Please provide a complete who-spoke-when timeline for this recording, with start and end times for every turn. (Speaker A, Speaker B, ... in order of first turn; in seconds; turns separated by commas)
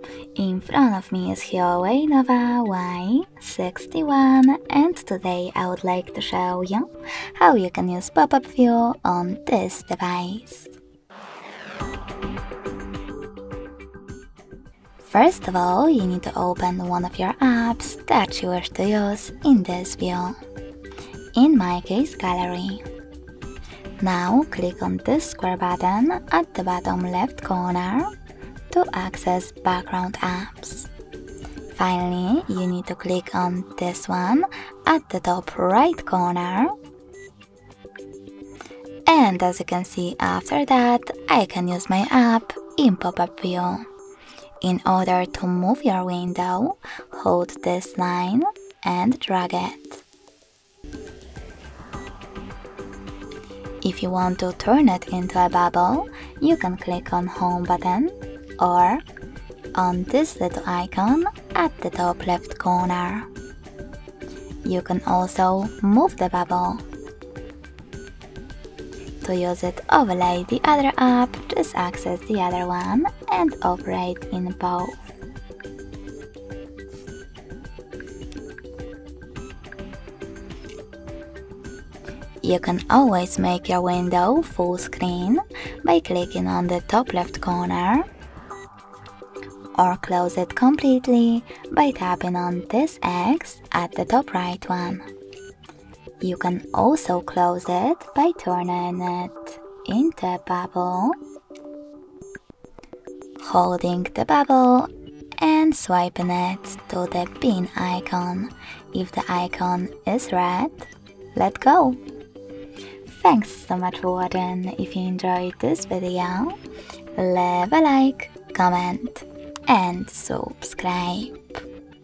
Speaker A: 0.3-10.7, Speaker A: 15.0-20.4, Speaker A: 21.4-22.8, Speaker A: 24.0-28.1, Speaker A: 28.7-30.9, Speaker A: 31.7-36.7, Speaker A: 39.1-43.9, Speaker A: 44.6-50.0, Speaker A: 53.8-59.0, Speaker A: 59.7-63.3, Speaker A: 64.6-66.8, Speaker A: 69.2-75.2, Speaker A: 82.4-88.1, Speaker A: 89.7-95.0, Speaker A: 96.2-101.1, Speaker A: 103.4-112.0, Speaker A: 113.1-116.5, Speaker A: 117.2-121.6